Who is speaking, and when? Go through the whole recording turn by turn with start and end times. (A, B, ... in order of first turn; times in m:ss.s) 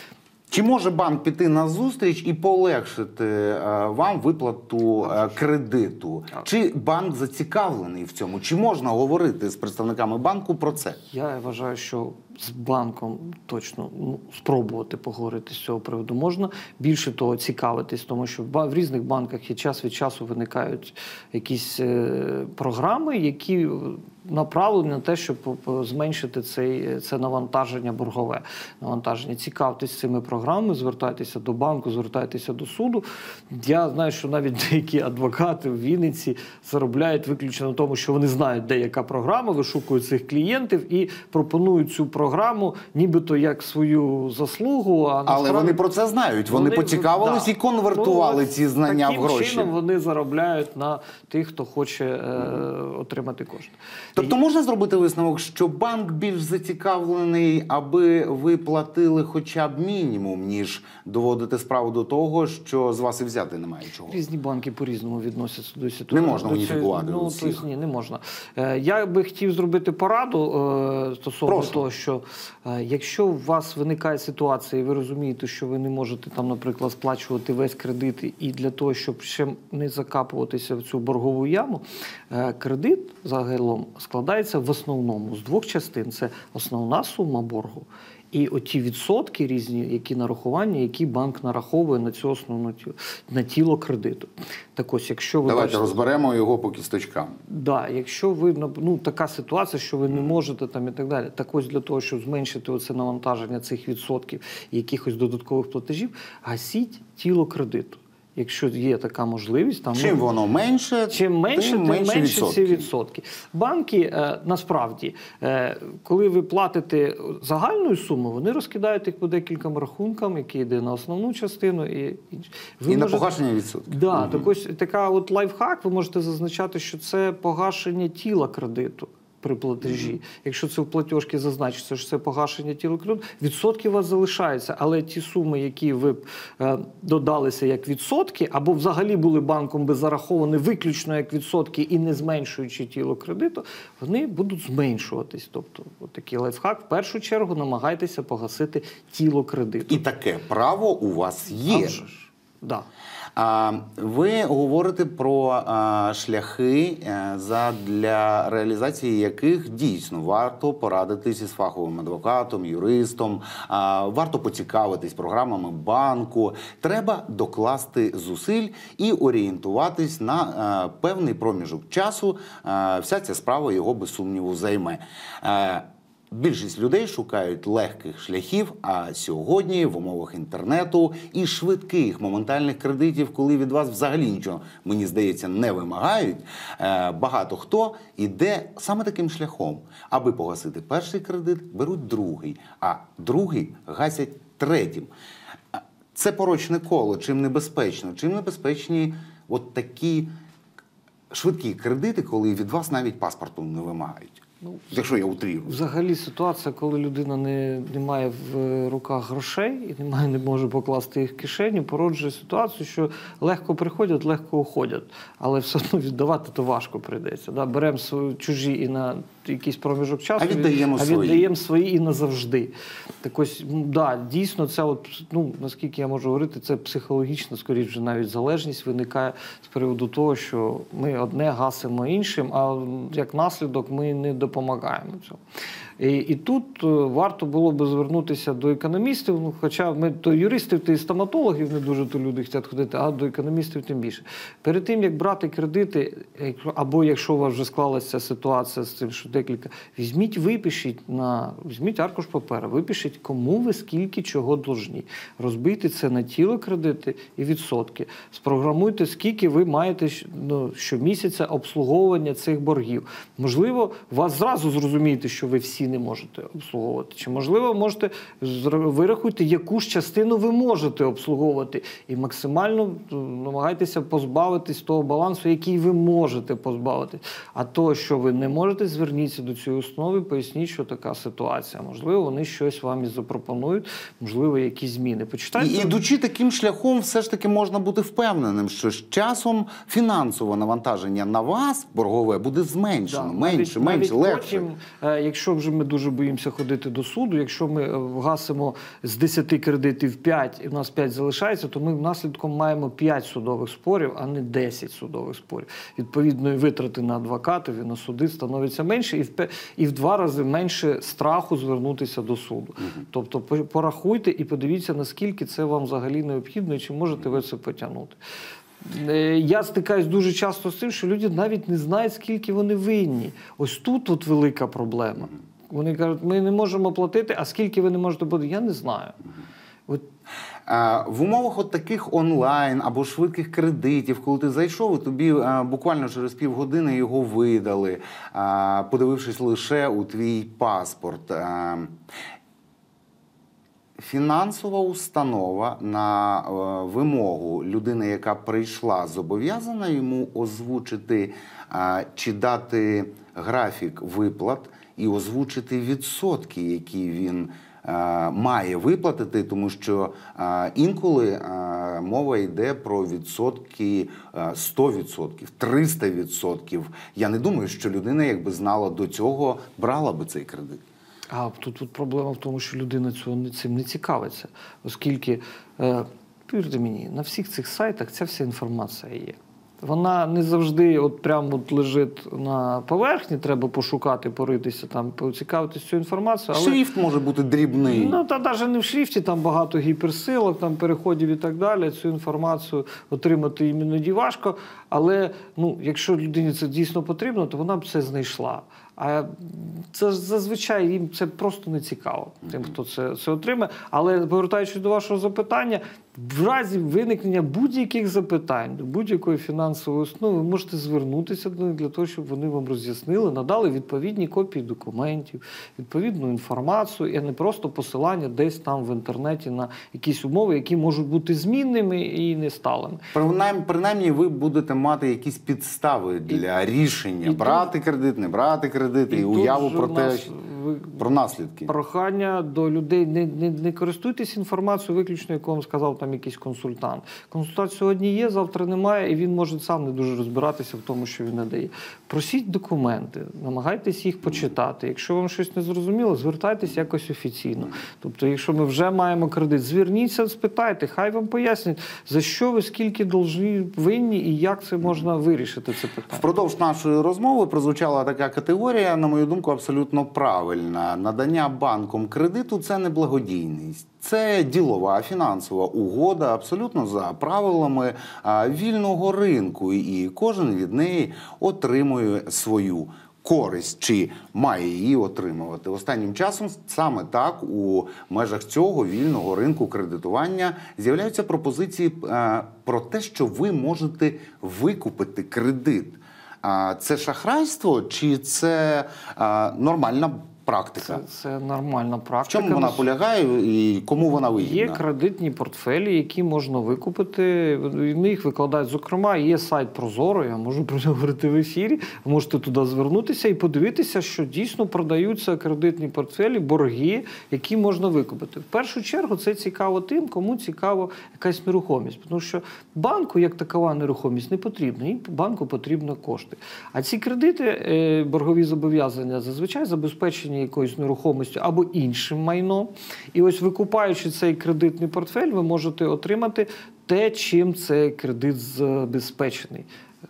0:00.5-0:11.0 A
0:05.0-0:05.4 B
0:11.0-0:45.8 B
0:45.3-0:49.7 A
0:46.5-0:54.3 B
0:54.2-1:04.2 A
1:04.1-1:35.9 B
1:06.1-1:07.6 A
1:11.5-1:11.8 A
1:35.4-1:37.4 A
1:37.5-1:50.2 B
1:49.9-1:52.9 A
1:51.1-2:03.3 B
2:02.9-2:04.5 A
2:03.9-2:30.0 B
2:09.8-2:10.2 A
2:29.9-2:32.0 A
2:31.6-2:32.9 B
2:33.4-3:15.1 A
3:15.7-3:20.3 A
3:21.3-3:25.8 A
3:25.6-3:55.4 B
3:40.4-3:41.5 A
3:56.0-4:46.0 B
4:45.6-4:54.6 A
4:53.1-5:18.2 B
5:18.8-5:29.2 B
5:30.7-5:42.0 A
5:44.0-6:10.8 A
6:11.3-6:26.8 B
6:26.5-6:28.2 A
6:27.9-7:03.1 B
7:03.1-7:10.3 A
7:07.2-7:07.7 B
7:09.1-7:11.0 B
7:11.0-7:11.7 A
7:11.7-7:36.3 B
7:36.1-8:11.0 A
8:10.8-8:12.9 B
8:12.3-8:14.8 A
8:14.4-8:49.7 B